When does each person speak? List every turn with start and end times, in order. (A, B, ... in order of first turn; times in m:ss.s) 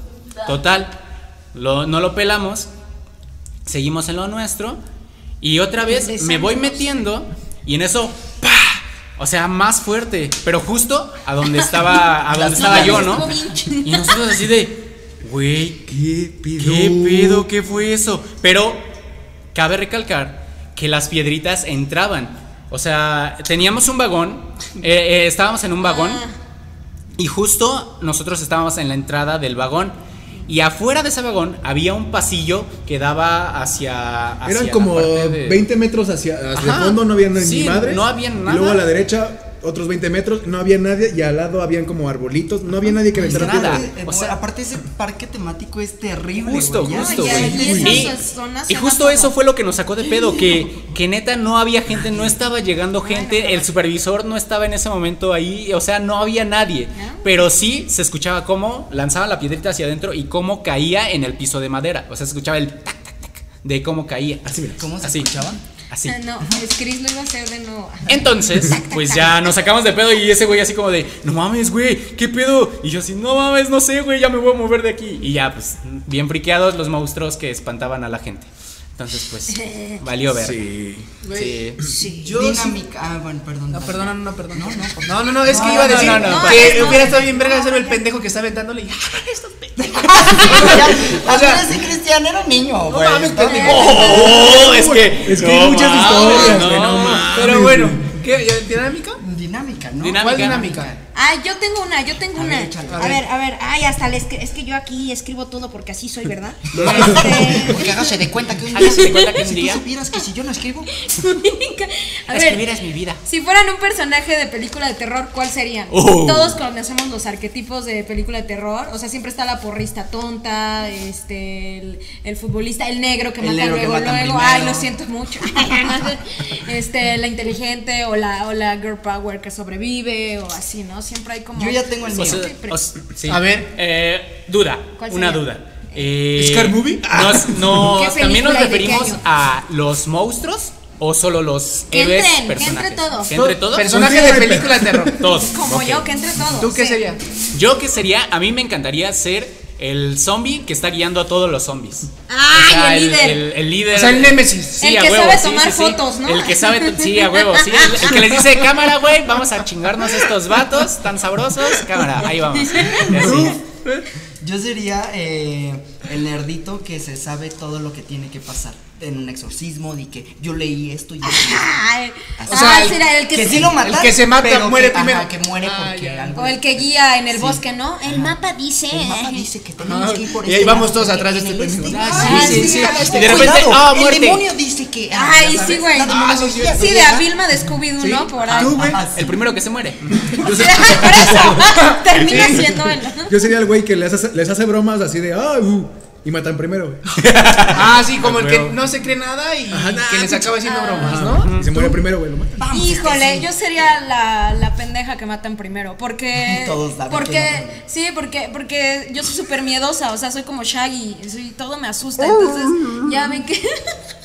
0:00.4-0:01.0 A
0:01.5-0:02.7 A
0:03.6-0:04.8 A
0:05.4-0:15.8 A
0:05.9-0:07.1 B
0:12.3-0:13.3 C
0:12.4-0:14.2 B
0:15.9-0:17.5 D
0:16.6-0:18.9 A
0:19.5-0:26.2 A
0:25.8-0:26.4 B
0:27.2-0:30.0 A
0:30.5-0:35.6 A
0:34.4-0:43.9 D
0:36.5-0:38.8 A
0:43.1-0:48.1 C
0:43.2-0:44.4 A
0:46.4-1:06.2 A
0:46.9-0:49.3 B
0:47.3-0:48.0 D
0:53.0-0:53.7 B
0:56.9-0:57.3 B
1:04.4-1:04.8 D
1:04.8-1:05.6 C
1:06.0-1:09.5 B
1:08.1-1:20.7 A
1:19.5-1:20.0 B
1:20.3-1:21.1 D
1:21.2-1:22.8 E
1:21.3-1:21.8 A
1:21.8-1:22.3 B
1:22.3-1:26.5 C
1:23.7-1:31.7 E
1:25.5-1:27.1 A
1:25.9-1:28.0 B
1:29.8-1:34.2 C
1:32.9-1:34.7 E
1:33.4-1:34.5 B
1:33.5-1:37.5 A
1:34.4-1:38.2 D
1:36.2-1:36.6 B
1:36.2-1:36.6 E
1:37.3-1:39.2 E
1:39.2-1:41.0 C
1:40.0-1:40.8 A
1:40.2-1:40.9 E
1:41.1-1:48.1 B
1:42.3-1:43.2 C
1:42.9-1:43.2 E
1:46.7-1:47.6 A
1:46.8-1:47.3 D
1:46.9-1:50.9 C
1:48.7-1:49.8 A
1:48.8-1:49.3 B
1:50.9-1:52.6 B
1:52.3-1:53.2 A
1:53.2-2:12.8 B
1:55.9-1:56.6 A
2:03.4-2:04.9 C
2:11.5-2:12.5 C
2:12.1-2:24.0 A
2:13.3-2:13.7 E
2:15.0-2:15.4 B
2:16.3-2:17.7 E
2:17.8-2:19.2 B
2:21.9-2:23.3 B
2:23.3-2:25.3 E
2:23.9-2:25.1 D
2:25.0-2:26.1 A
2:25.5-2:27.1 B
2:26.5-2:27.2 E
2:27.5-2:43.6 A
2:32.3-2:33.4 B
2:33.9-2:34.8 E
2:34.8-2:38.1 B
2:42.5-2:43.1 B
2:43.0-2:44.0 E
2:43.2-2:43.5 C
2:44.4-2:51.7 C
2:51.2-2:53.8 B
2:52.4-2:58.4 C
2:52.5-2:53.0 E
2:53.6-2:56.3 E
2:56.4-2:59.5 B
2:58.9-3:07.3 C
2:59.8-3:03.5 E
3:01.8-3:04.4 A
3:02.2-3:03.5 B
3:05.1-3:08.9 B
3:06.0-3:06.9 E
3:08.0-3:09.0 E
3:08.4-3:10.5 A
3:08.8-3:09.4 C
3:10.3-3:11.8 D
3:10.4-3:13.3 B
3:12.1-3:12.8 E
3:13.2-3:17.3 D
3:17.2-3:18.8 A
3:17.7-3:22.0 E
3:19.7-3:22.6 D
3:20.6-3:21.2 B
3:21.3-3:21.7 A
3:22.6-3:23.5 C
3:22.7-3:33.9 B
3:26.4-3:27.8 C